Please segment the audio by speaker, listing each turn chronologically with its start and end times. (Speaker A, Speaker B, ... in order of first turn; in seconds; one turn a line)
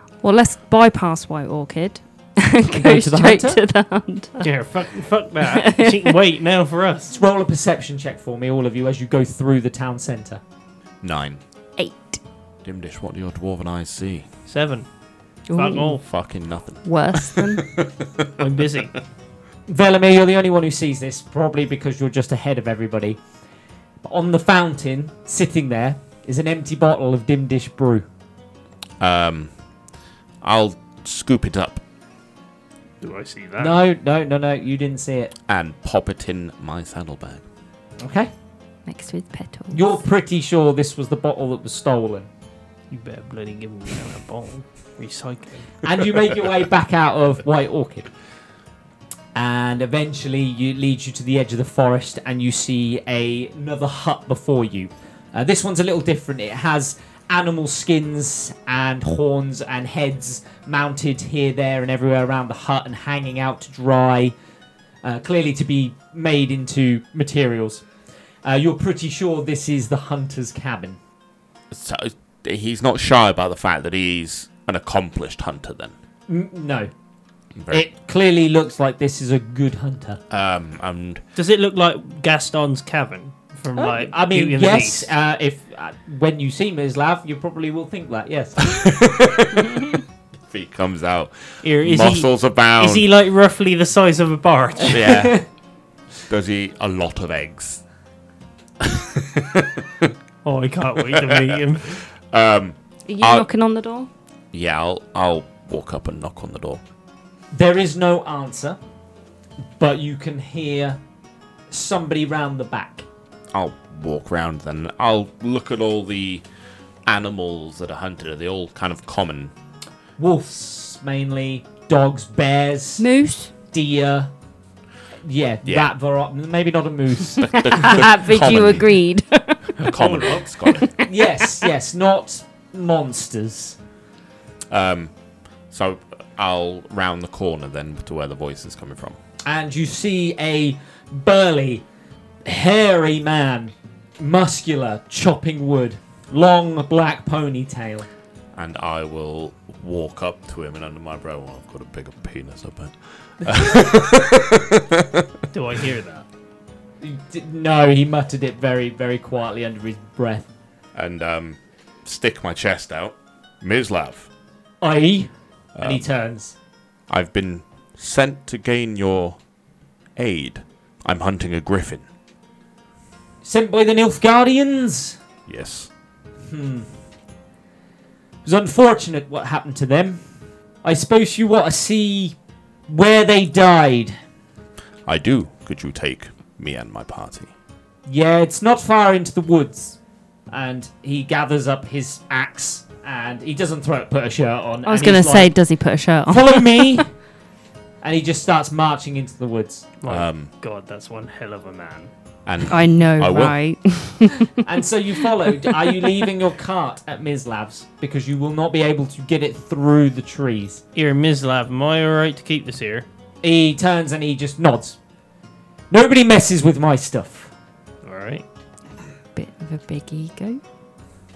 Speaker A: 0.2-4.5
Speaker B: 2.7-3.6
Speaker C: 4.4-7.1
Speaker A: 5.5-6.1
Speaker B: 7.1-10.4
Speaker D: 11.0-11.4
Speaker A: 11.8-12.2
Speaker D: 12.7-14.3
Speaker C: 14.5-14.9
Speaker A: 15.5-16.2
Speaker C: 15.5-16.0
Speaker D: 16.0-18.3
Speaker A: 16.8-17.7
Speaker C: 18.4-19.0
Speaker B: 19.7-23.2
Speaker B: 24.0-28.1
Speaker D: 29.0-29.5
Speaker D: 30.4-31.8
Speaker C: 33.0-33.8
Speaker B: 33.6-35.3
Speaker D: 35.5-37.5
Speaker B: 38.0-38.3
Speaker A: 38.9-40.0
Speaker B: 39.7-42.3
Speaker C: 42.9-45.8
Speaker B: 45.8-48.1
Speaker B: 49.4-64.3
Speaker B: 65.0-67.9
Speaker B: 68.4-71.0
Speaker D: 71.7-75.9
Speaker B: 76.3-76.9
Speaker D: 77.5-77.8
Speaker B: 77.7-80.2
Speaker D: 80.3-81.2
Speaker C: 81.4-85.1
Speaker B: 83.8-88.8
Speaker D: 88.7-93.1
Speaker C: 91.6-95.2
Speaker D: 94.9-95.4
Speaker B: 95.2-95.4
Speaker D: 96.3-97.8
Speaker D: 98.8-100.1
Speaker C: 100.4-102.0
Speaker D: 101.0-103.5
Speaker A: 103.1-104.1
Speaker D: 104.5-106.8
Speaker B: 107.5-108.8
Speaker B: 109.8-111.0
Speaker B: 111.7-113.1
Speaker D: 113.5-116.5
Speaker D: 117.1-119.5
Speaker B: 120.2-123.1
Speaker A: 123.0-123.5
Speaker B: 123.7-124.3
Speaker B: 125.2-127.9
Speaker D: 125.6-125.9
Speaker D: 127.4-129.0
Speaker A: 127.6-131.1
Speaker D: 129.8-130.9
Speaker C: 129.9-130.4
Speaker B: 131.0-133.8
Speaker D: 134.7-135.2
Speaker D: 135.7-139.2
Speaker B: 139.4-141.8
Speaker B: 142.4-148.1
Speaker D: 148.5-155.3
Speaker C: 155.5-156.3
Speaker B: 157.0-160.5
Speaker D: 160.9-164.3
Speaker B: 164.8-166.6
Speaker D: 165.8-166.1
Speaker D: 167.1-169.4
Speaker D: 170.2-172.1
Speaker B: 173.4-175.2
Speaker D: 175.5-175.9
Speaker B: 176.4-177.0
Speaker B: 178.4-180.2
Speaker B: 180.8-182.4
Speaker B: 182.9-184.2
Speaker D: 185.1-187.5
Speaker B: 188.1-190.0
Speaker B: 190.5-195.6
Speaker A: 194.8-197.0
Speaker B: 196.3-197.2
Speaker B: 198.0-199.9
Speaker C: 200.0-202.1
Speaker D: 200.1-200.5
Speaker D: 202.5-203.6
Speaker A: 202.7-204.6
Speaker B: 204.6-210.8
Speaker A: 205.7-206.1
Speaker C: 210.9-213.1
Speaker B: 213.4-215.0
Speaker B: 215.9-217.5
Speaker C: 218.0-218.4
Speaker A: 219.3-220.6